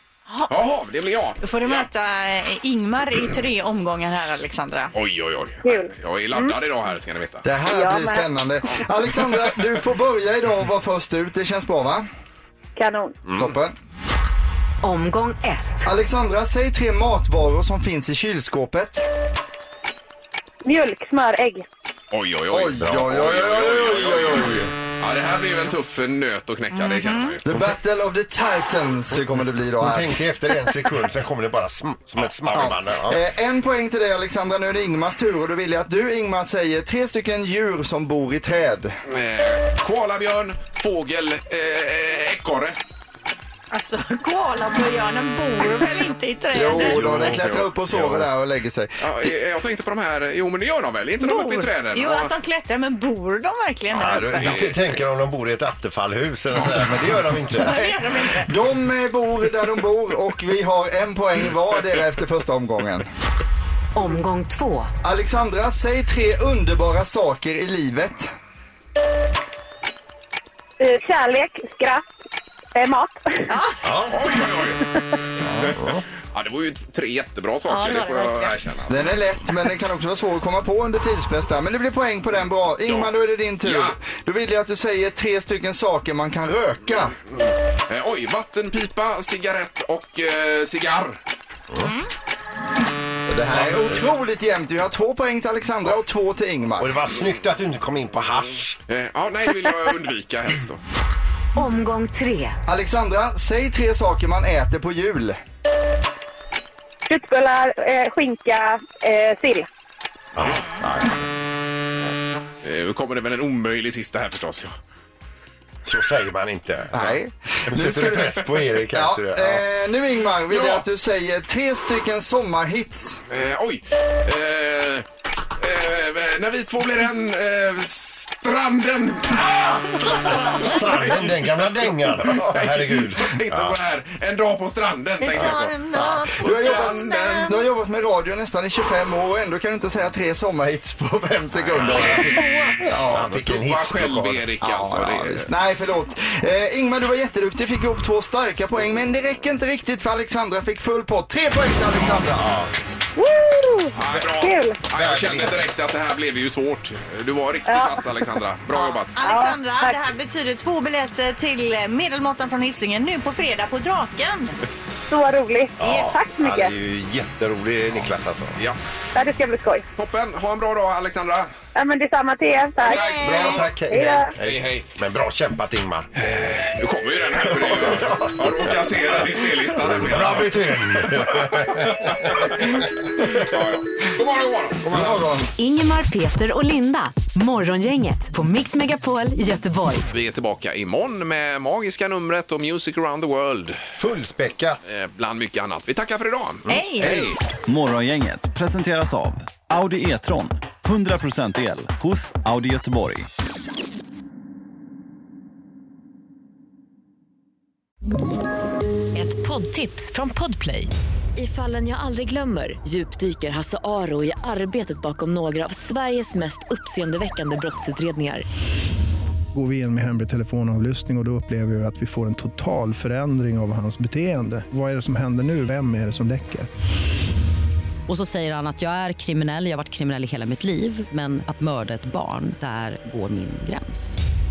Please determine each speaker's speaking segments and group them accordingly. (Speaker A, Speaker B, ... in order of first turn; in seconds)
Speaker A: 0.5-1.9, 4.9-7.4, 22.1-27.4, 32.4-32.8, 39.1-42.8, 47.0-47.6, 49.0-52.3, 54.4-55.0, 73.8-74.8, 75.6-79.0, 82.8-83.1, 83.6-83.9, 87.9-91.2, 98.9-100.8, 112.6-114.7, 120.5-120.8, 123.3-125.1, 125.6-131.0, 132.2-135.7, 136.4-137.5, 141.8-142.3, 142.9-145.5, 153.9-159.2, 169.9-171.5, 172.9-173.7, 174.3-174.9, 176.2-185.0, 190.1-193.8, 194.8-197.3
Speaker B: 1.4-4.9, 26.7-27.3, 43.7-47.0, 51.2-54.7, 57.5-58.5, 73.5-73.8, 77.7-78.5, 91.8-92.1, 135.2-137.5, 158.7-164.6, 172.9-173.6, 196.7-197.3
Speaker C: 5.6-6.5, 7.6-8.2, 12.8-13.2, 20.6-21.6, 70.8-72.0, 72.7-73.5, 107.1-109.7, 153.2-154.8, 157.7-158.2, 159.2-159.9, 165.1-166.7, 169.1-169.8, 171.7-174.3
Speaker D: 7.4-12.1, 13.3-13.7, 15.8-19.0, 22.5-24.7, 27.4-30.2, 32.5-38.9, 46.5-49.3, 56.5-63.0, 65.0-68.3, 78.9-87.1, 93.3-96.9, 102.7-105.4, 116.9-123.2, 136.4-142.4, 144.8-152.4, 184.8-185.5
Speaker E: 14.8-15.8, 63.9-64.9, 101.5-102.6, 185.6-190.0
Speaker F: 22.8-23.2, 29.8-33.2, 46.8-48.2, 53.9-57.8, 73.8-74.2, 75.6-76.0, 93.5-94.0, 96.8-98.8, 110.3-111.2, 115.8-117.1, 117.7-119.6, 130.4-133.8, 141.6-142.3, 143.0-144.9, 152.4-152.7, 154.9-155.6, 165.8-168.6, 173.2-176.1, 177.4-182.7, 194.0-194.8
Speaker G: 197.7-203.3
Speaker H: 209.1-218.4
Speaker I: 219.5-226.7
Speaker J: 228.1-234.2